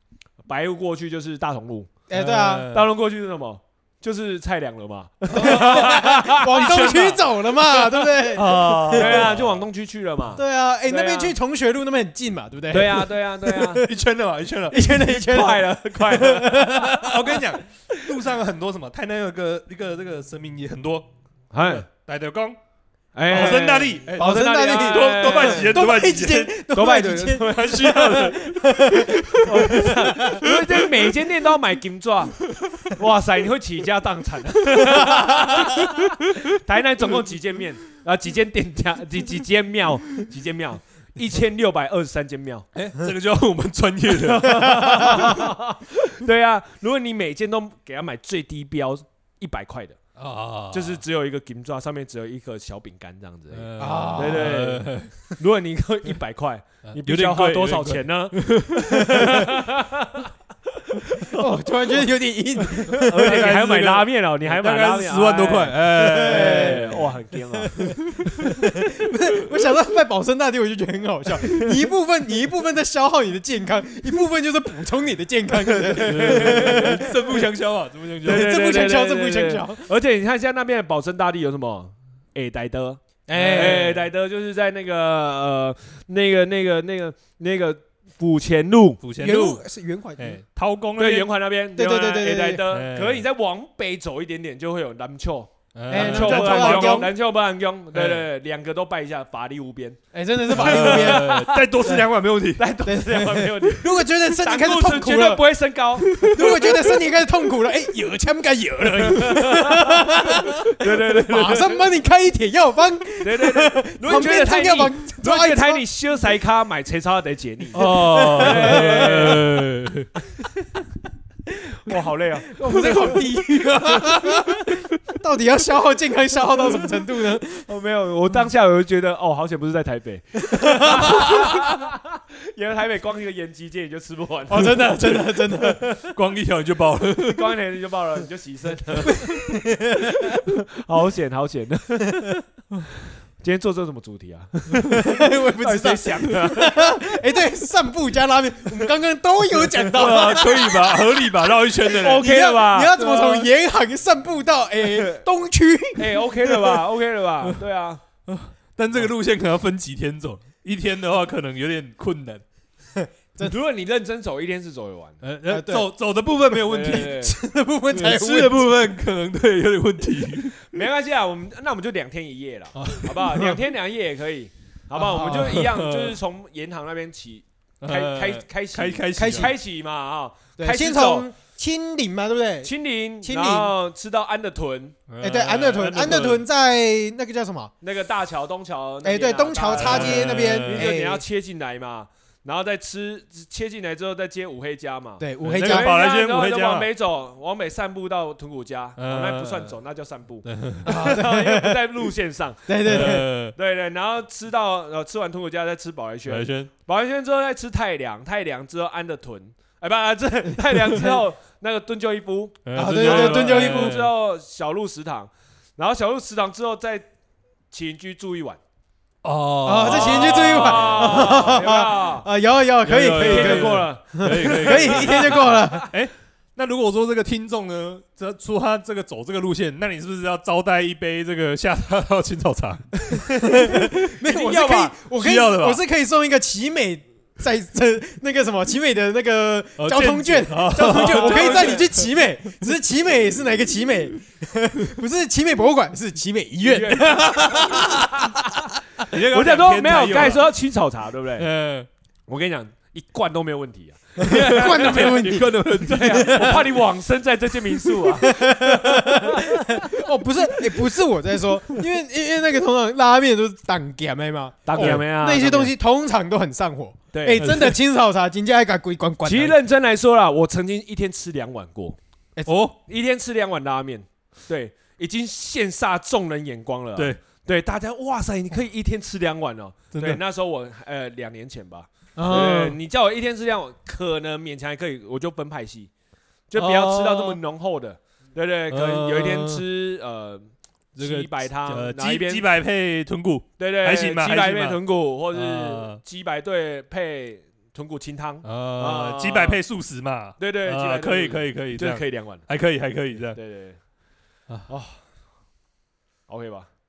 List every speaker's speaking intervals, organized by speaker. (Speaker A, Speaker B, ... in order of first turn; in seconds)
Speaker A: 0.5-1.9, 2.7-11.4, 12.7-13.8, 15.1-17.2, 21.5-21.9, 23.1-25.8, 26.7-28.3, 29.4-42.7, 44.1-50.0, 50.7-60.3, 60.9-61.4, 62.8-68.0, 76.0-77.1, 78.2-89.0, 91.0-101.7, 102.6-106.3, 109.0-110.1, 110.7-111.8, 113.2-119.7, 121.8-123.3, 127.7-136.1, 137.3-139.4, 140.2-142.4, 143.4-147.2, 150.0-153.3, 154.8-155.2, 156.0-158.0, 163.4-165.2, 166.7-167.4, 170.6-181.3, 182.6-185.0, 187.8-217.1, 217.7-218.6, 219.8-222.3, 223.0-225.9, 234.2-235.0, 240.8-241.9, 246.6-251.5, 252.3-259.8, 264.7-265.7, 267.1-267.7, 269.2-272.0, 272.9-285.9, 286.5-292.4, 293.6-299.6, 300.4-302.5, 303.3-303.8, 304.7-305.0, 306.3-306.7
Speaker B: 2.1-2.7, 5.3-9.3, 10.4-13.9, 14.7-17.1, 23.3-30.8, 53.8-54.6, 61.3-63.6, 65.9-67.0, 67.6-77.1, 78.2-79.8, 83.3-84.1, 89.2-90.4, 91.8-92.6, 95.9-97.1, 100.1-102.0, 102.8-105.4, 106.2-115.8, 117.8-119.4, 122.5-127.7, 130.5-131.2, 134.5-135.8, 139.1-140.4, 144.9-150.9, 152.0-156.5, 163.0-163.6, 165.5-165.9, 166.9-168.7, 172.9-173.6, 175.0-175.6, 179.2-179.5, 180.6-182.7, 183.2-183.7, 185.2-187.7, 189.0-191.2, 195.2-195.9, 200.9-201.8, 202.7-203.3, 212.8-214.0, 219.7-225.9, 233.3-248.0, 254.2-256.6, 258.1-269.6, 282.2-282.8, 286.6-287.4
Speaker C: 2.1-2.9, 5.3-6.1, 8.4-9.6, 13.8-15.2, 16.8-21.1, 21.6-22.6, 23.3-26.6, 27.4-29.9, 35.0-36.0, 42.8-45.5, 50.2-51.0, 53.5-55.1, 56.9-59.6, 62.9-67.1, 67.8-68.7, 75.9-78.7, 83.3-84.0, 89.0-89.6, 90.2-91.3, 92.7-93.2, 95.8-97.1, 97.9-98.3, 100.5-102.7, 106.1-106.8, 117.7-120.1, 123.7-124.7, 131.1-131.6, 136.0-137.6, 149.9-152.3, 153.0-153.4, 158.3-162.4, 165.2-167.3, 167.9-170.7, 172.8-173.2, 175.2-176.2, 177.8-179.5, 185.1-186.4, 189.7-190.9, 195.4-196.9, 199.0-199.8, 200.4-200.9, 202.8-203.6, 206.3-206.7, 212.7-214.1, 219.2-221.7, 222.8-233.9, 235.2-235.8, 239.8-242.1, 247.5-248.1, 249.0-250.5, 251.4-251.9, 254.2-256.8, 264.8-265.0, 267.4-267.7, 272.5-272.8, 279.9-280.2, 286.6-287.0, 288.7-289.6, 291.0-294.8, 295.3-296.0, 298.4-303.4